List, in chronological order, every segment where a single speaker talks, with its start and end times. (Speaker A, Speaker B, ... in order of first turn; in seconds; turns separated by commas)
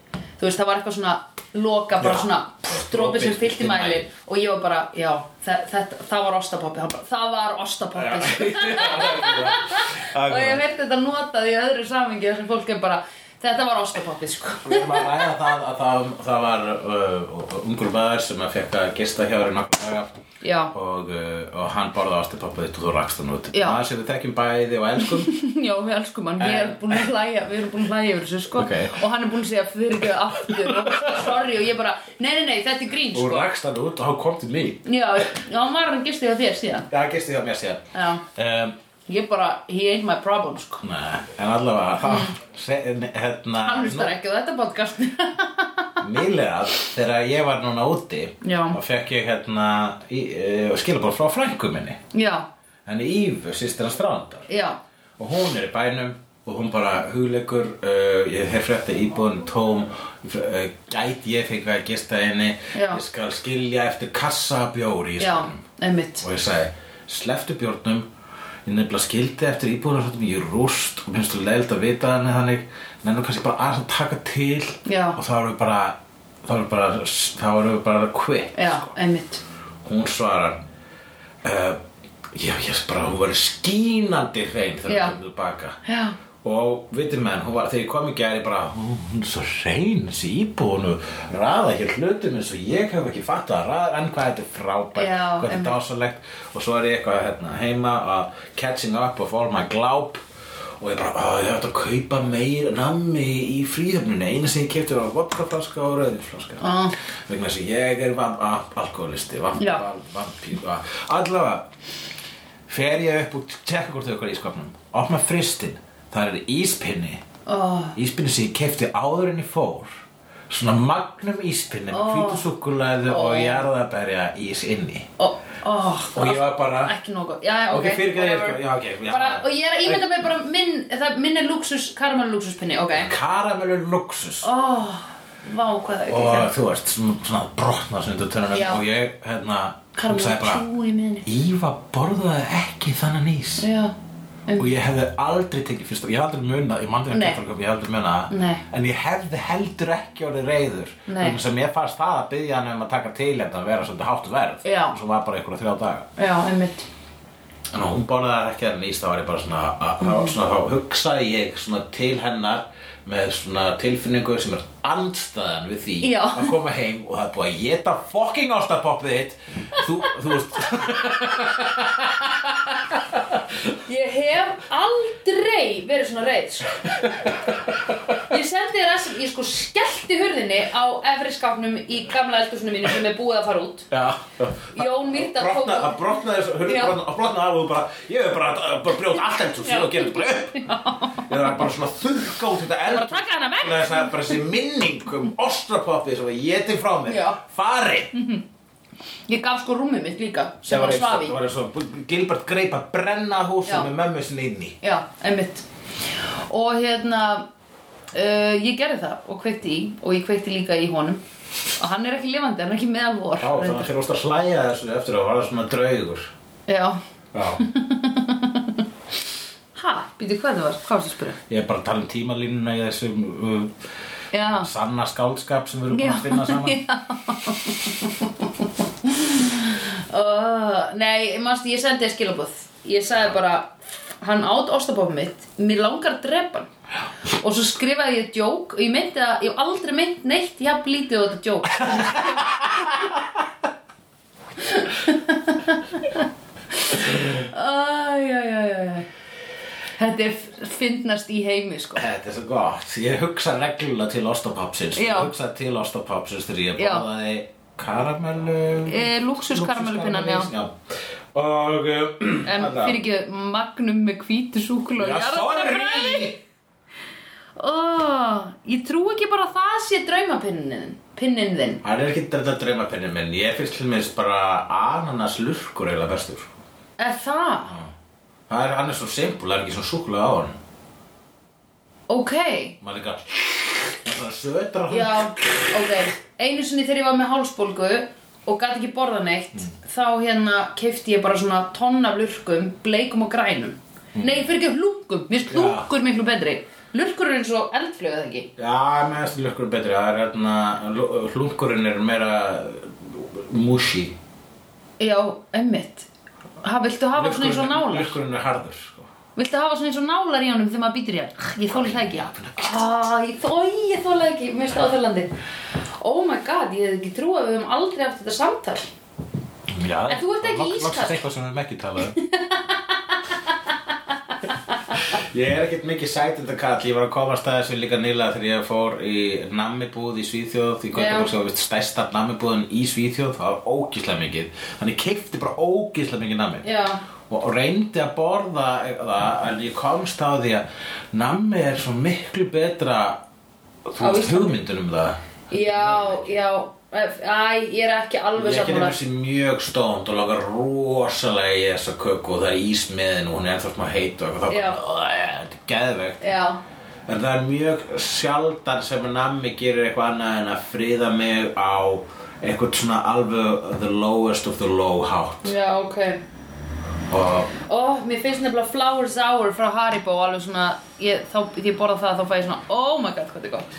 Speaker A: 0.4-15.2, Speaker B: 2.0-4.1, Speaker B: 8.0-10.7, Speaker B: 14.6-20.1, Speaker A: 20.4-20.7, Speaker B: 20.7-25.3, Speaker A: 23.5-23.8, Speaker A: 25.0-33.5, Speaker B: 26.4-27.1, Speaker B: 28.6-29.0, Speaker B: 30.4-31.3, Speaker B: 33.1-34.9, Speaker A: 34.9-36.9, Speaker B: 36.9-38.8, Speaker A: 37.9-38.2, Speaker A: 39.1-40.8, Speaker B: 40.8-44.1, Speaker A: 42.0-42.4, Speaker A: 43.6-46.0, Speaker B: 46.0-52.0, Speaker A: 48.4-48.8, Speaker A: 52.1-52.5, Speaker B: 52.9-54.5, Speaker A: 54.5-54.8, Speaker B: 55.2-65.6, Speaker A: 62.7-63.0, Speaker A: 65.2-66.2, Speaker B: 66.2-68.1, Speaker B: 68.7-78.9, Speaker A: 74.8-75.2, Speaker A: 78.5-79.4, Speaker B: 79.8-80.6, Speaker B: 81.4-81.8, Speaker B: 82.3-85.8, Speaker A: 84.9-85.2, Speaker A: 85.8-86.2, Speaker B: 86.4-100.2, Speaker A: 95.0-95.8, Speaker B: 100.8-106.7, Speaker A: 106.6-107.0, Speaker B: 107.3-111.7, Speaker A: 109.6-109.8, Speaker B: 112.7-117.2, Speaker A: 117.5-118.0, Speaker B: 118.0-125.1, Speaker A: 121.9-122.5, Speaker A: 123.1-123.7, Speaker A: 125.2-133.1, Speaker B: 126.1-126.9, Speaker B: 127.7-130.1, Speaker B: 132.9-134.5, Speaker A: 134.4-136.5, Speaker B: 136.1-140.7, Speaker A: 138.5-138.8, Speaker A: 140.0-141.3, Speaker B: 141.2-143.7, Speaker A: 143.6-143.9, Speaker B: 144.6-156.1, Speaker A: 147.1-147.4, Speaker A: 148.3-148.6, Speaker A: 151.1-151.4, Speaker A: 154.6-155.0, Speaker A: 156.2-156.9, Speaker B: 157.7-173.6, Speaker A: 160.0-160.3, Speaker A: 166.0-166.6, Speaker A: 173.8-177.3, Speaker B: 176.9-178.2, Speaker A: 178.2-183.9, Speaker B: 183.9-190.6, Speaker A: 184.7-186.0, Speaker A: 186.6-187.0, Speaker A: 189.6-191.3, Speaker B: 191.3-198.1, Speaker A: 192.9-194.4, Speaker A: 197.1-197.4, Speaker A: 198.2-198.4, Speaker A: 199.3-201.4, Speaker B: 200.7-204.8, Speaker A: 204.8-207.5, Speaker A: 208.1-211.2, Speaker A: 211.8-213.9, Speaker B: 213.4-216.3, Speaker A: 216.7-217.0, Speaker B: 217.3-217.6, Speaker A: 217.6-218.8, Speaker A: 219.8-221.4, Speaker B: 221.5-223.8, Speaker A: 224.3-224.7, Speaker B: 224.5-226.8, Speaker A: 225.9-236.7, Speaker A: 237.4-243.1, Speaker B: 241.9-242.8, Speaker A: 244.6-246.2, Speaker A: 246.8-249.1, Speaker A: 250.0-252.1, Speaker B: 251.9-260.8, Speaker A: 254.9-255.3, Speaker A: 256.8-257.1, Speaker A: 258.9-260.5, Speaker B: 261.3-263.0, Speaker A: 262.4-266.4, Speaker B: 265.0-266.4, Speaker A: 267.6-271.8, Speaker B: 271.8-276.5, Speaker A: 277.0-277.8, Speaker B: 278.5-280.6, Speaker A: 282.1-282.8, Speaker B: 282.8-285.8, Speaker A: 284.9-298.5, Speaker B: 294.2-294.4, Speaker B: 295.5-295.9, Speaker B: 298.6-304.2, Speaker A: 305.0-306.1, Speaker A: 306.6-308.2, Speaker B: 307.1-309.1, Speaker A: 309.4-315.3, Speaker B: 311.7-312.8, Speaker A: 316.0-318.9, Speaker B: 319.7-322.2, Speaker A: 320.1-321.2, Speaker A: 322.1-325.0, Speaker B: 325.0-336.6, Speaker A: 330.9-331.3, Speaker A: 336.6-337.0, Speaker B: 337.2-343.2, Speaker B: 343.9-346.4, Speaker A: 344.0-344.6, Speaker A: 345.5-349.0, Speaker B: 348.4-356.3, Speaker A: 354.5-354.8, Speaker A: 356.2-356.6, Speaker B: 357.1-365.5, Speaker A: 365.4-366.2, Speaker B: 367.1-367.5, Speaker A: 367.6-373.7